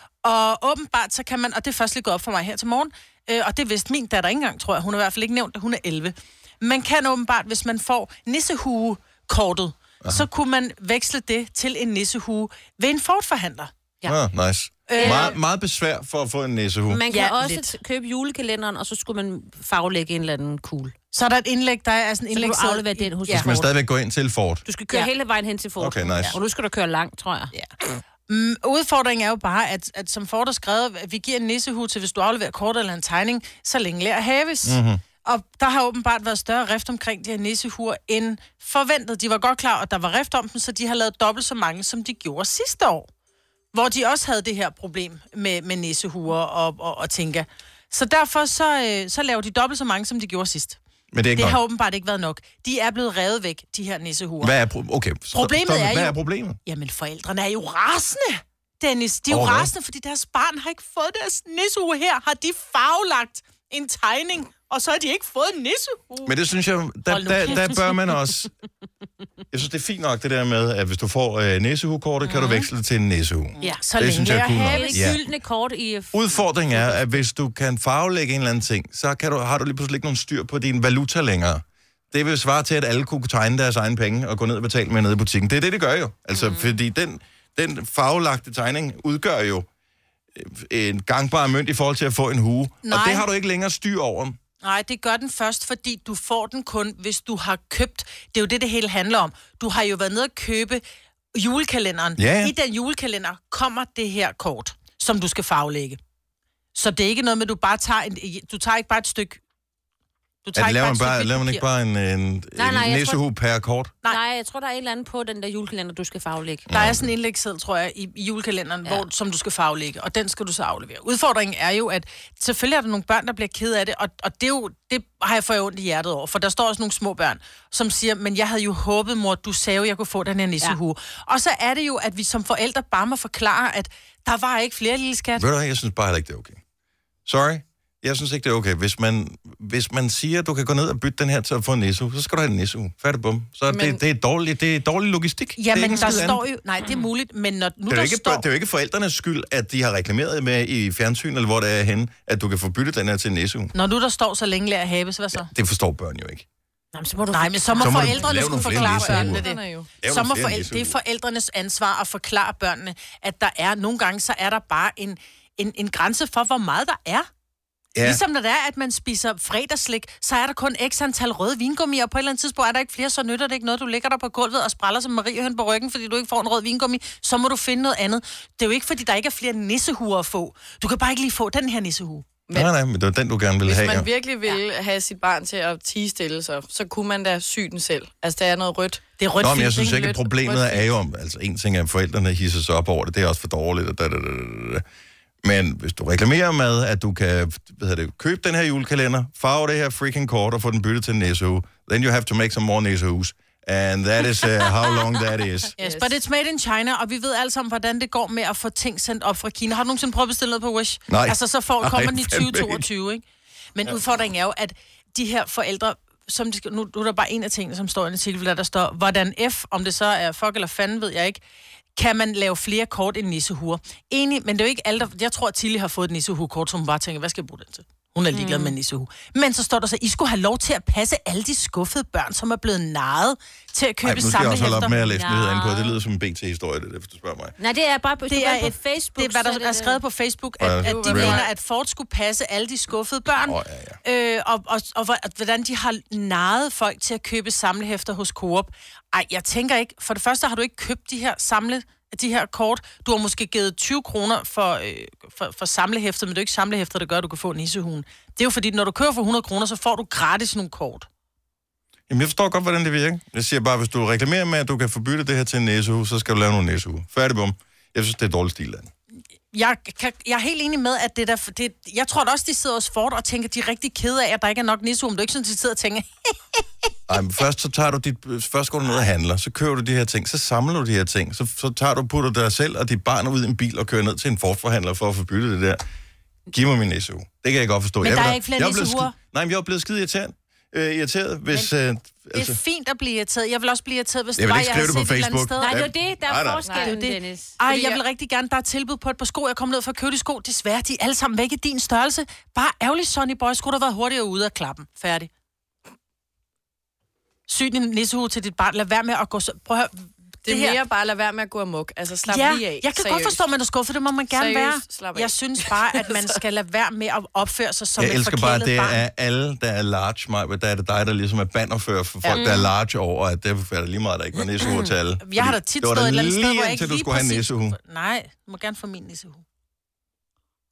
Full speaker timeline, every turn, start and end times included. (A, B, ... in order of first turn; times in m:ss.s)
0:00.2-0:13.7 A
0:14.0-0:17.0 B
0:14.9-0:15.4 A
0:14.9-0:15.4 C
0:16.9-0:21.0 C
0:17.2-0:17.6 A
0:21.1-0:23.6 A
0:22.3-0:23.7 C
0:23.3-0:24.6 B
0:24.7-0:27.5 C
0:25.8-0:26.4 B
0:28.3-0:43.1 A
0:34.6-0:35.0 B
0:43.7-0:50.8 A
0:51.1-0:51.6 B
0:51.4-0:54.5 A
0:54.4-0:56.6 B
0:55.3-1:06.3 A
0:59.3-0:59.7 B
1:06.2-1:08.5 B
1:07.1-1:07.9 A
1:09.5-1:15.2 B
1:12.3-1:12.6 A
1:13.6-1:15.1 A
1:14.7-1:17.2 C
1:16.1-1:29.7 B
1:26.3-1:26.8 C
1:30.4-1:34.4 B
1:32.8-1:33.3 A
1:34.6-1:40.8 A
1:41.3-1:46.0 A
1:42.2-1:42.5 B
1:46.8-1:49.4 A
1:50.4-1:51.6 A
1:50.6-1:53.9 B
1:52.6-1:53.2 C
1:54.1-1:56.7 C
1:56.7-1:57.1 B
1:56.7-2:15.5 A
2:15.4-2:16.6 B
2:17.2-2:26.4 B
2:23.7-2:24.0 D
2:25.6-2:28.4 A
2:27.9-2:33.7 B
2:33.7-2:35.5 A
2:35.4-2:36.4 B
2:36.9-2:38.2 C
2:37.3-2:47.3 A
2:37.8-2:39.5 B
2:38.4-2:39.9 D
2:40.0-2:41.0 B
2:48.0-2:48.2 B
2:48.0-3:02.3 A
3:02.5-3:04.1 B
3:03.6-3:09.0 D
3:09.2-3:10.2 A
3:09.4-3:14.8 B
3:09.8-3:10.9 D
3:15.4-3:25.8 B
3:25.8-3:33.2 A
3:25.8-3:26.1 D
3:31.1-3:32.8 B
3:33.8-3:41.4 A
3:42.0-3:55.0 A
3:48.3-3:48.8 C
3:54.0-3:57.6 B
3:54.7-3:56.0 C
3:57.6-4:00.0 C
3:58.3-4:21.1 A
4:00.6-4:01.4 B
4:00.8-4:01.5 D
4:03.4-4:04.0 B
4:22.1-4:28.9 B
4:29.5-4:36.9 A
4:37.1-4:45.8 B
4:46.5-4:52.6 B
4:48.0-4:49.1 A
4:52.3-4:55.8 A
4:54.4-4:56.7 B
4:55.6-4:57.6 C
4:56.6-4:57.0 D
4:56.8-5:05.3 A
4:57.6-4:58.0 D
5:07.5-5:10.8 A
5:10.5-5:13.4 D
5:12.3-5:19.0 A
5:14.3-5:16.2 D
5:18.0-5:27.8 B
5:22.3-5:22.7 C
5:24.6-5:24.9 C
5:25.2-5:29.4 A